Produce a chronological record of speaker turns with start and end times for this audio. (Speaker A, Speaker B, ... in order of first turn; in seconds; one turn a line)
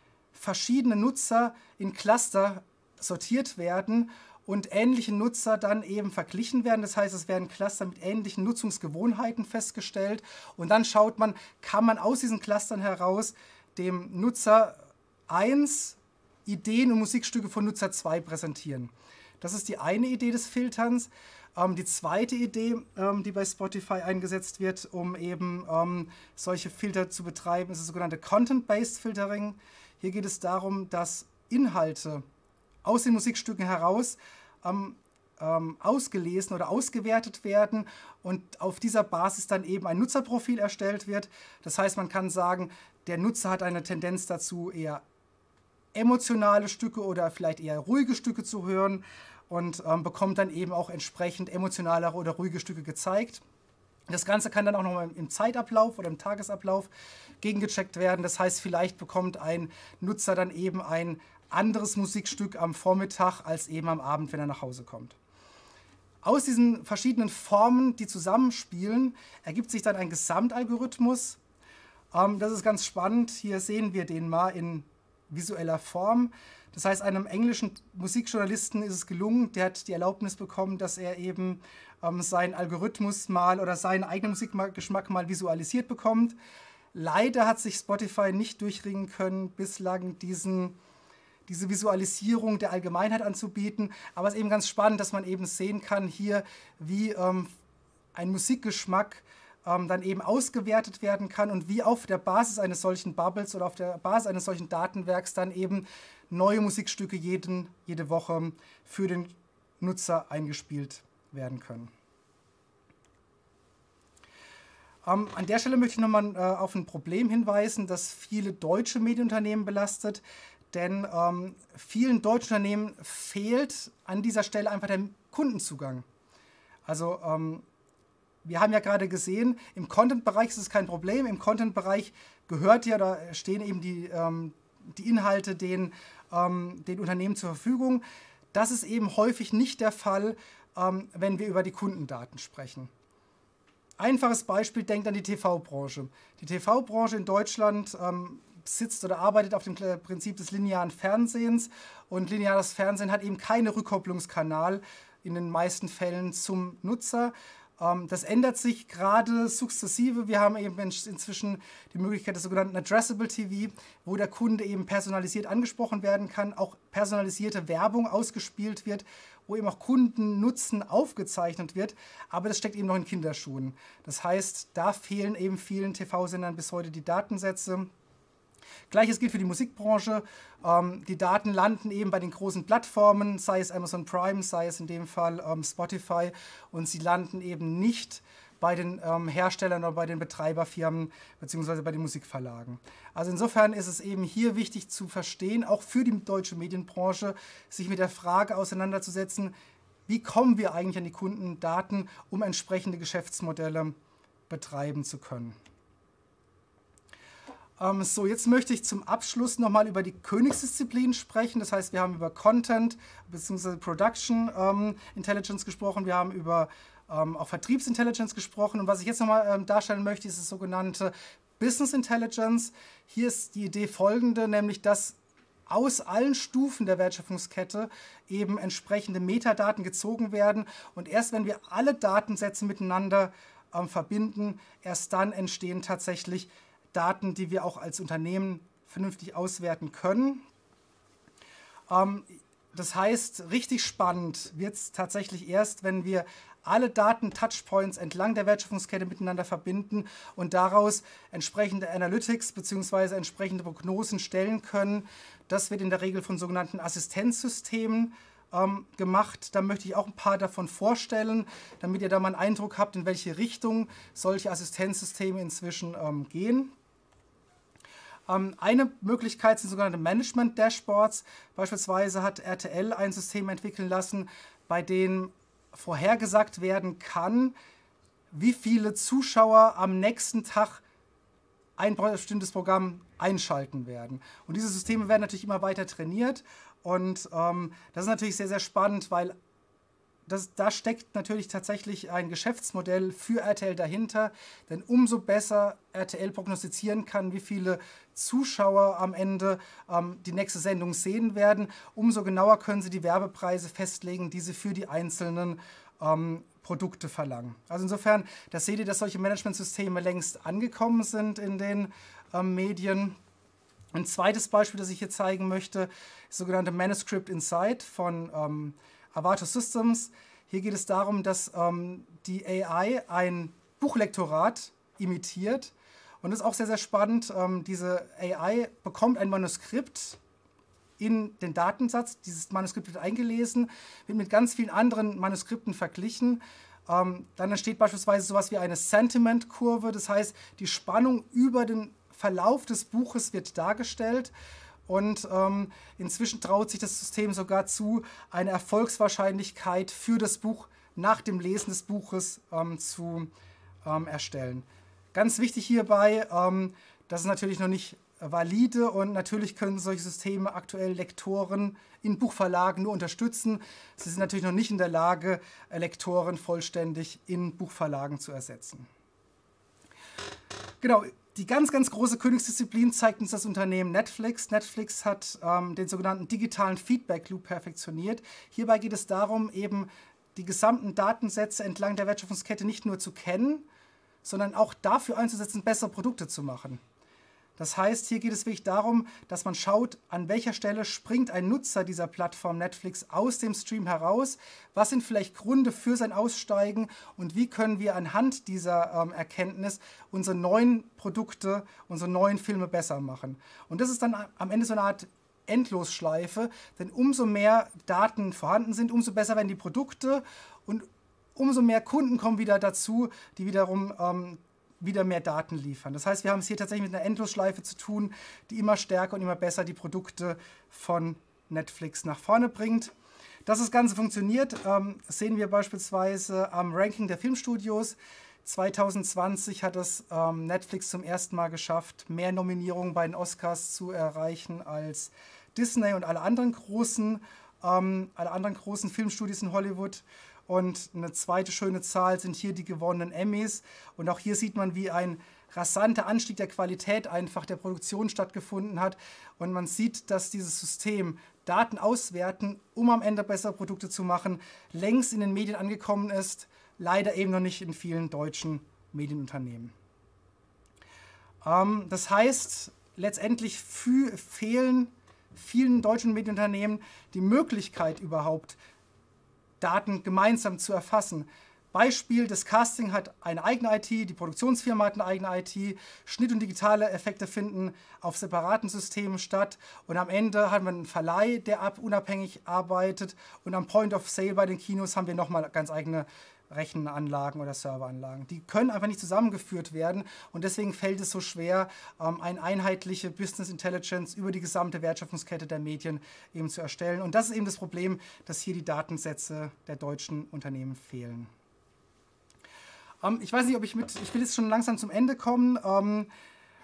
Speaker A: 0.3-32.2
Speaker A: 32.8-45.0
Speaker A: 45.9-53.4
Speaker A: 54.1-56.9
Speaker A: 57.4-65.2
Speaker A: 66.2-71.4
Speaker A: 72.1-86.3
Speaker A: 86.9-90.8
Speaker A: 91.5-97.5
Speaker A: 98.1-111.9
Speaker A: 115.0-126.0
Speaker A: 126.8-127.6
Speaker A: 128.4-142.9
Speaker A: 144.0-177.9
Speaker A: 178.9-199.5
Speaker A: 200.1-203.9
Speaker A: 204.5-205.6
Speaker A: 207.8-225.2
Speaker A: 225.7-240.4
Speaker A: 241.9-266.7
Speaker A: 268.3-277.5
Speaker A: 278.3-280.8
Speaker A: 281.8-289.4
Speaker A: 290.3-313.2
Speaker A: 313.9-330.2
Speaker A: 331.0-344.3
Speaker A: 344.9-353.3
Speaker A: 353.8-368.9
Speaker A: 370.8-383.6
Speaker A: 384.2-386.8
Speaker A: 387.6-422.9
Speaker A: 423.4-459.7
Speaker A: 461.4-468.6
Speaker A: 469.6-501.3
Speaker A: 503.0-506.1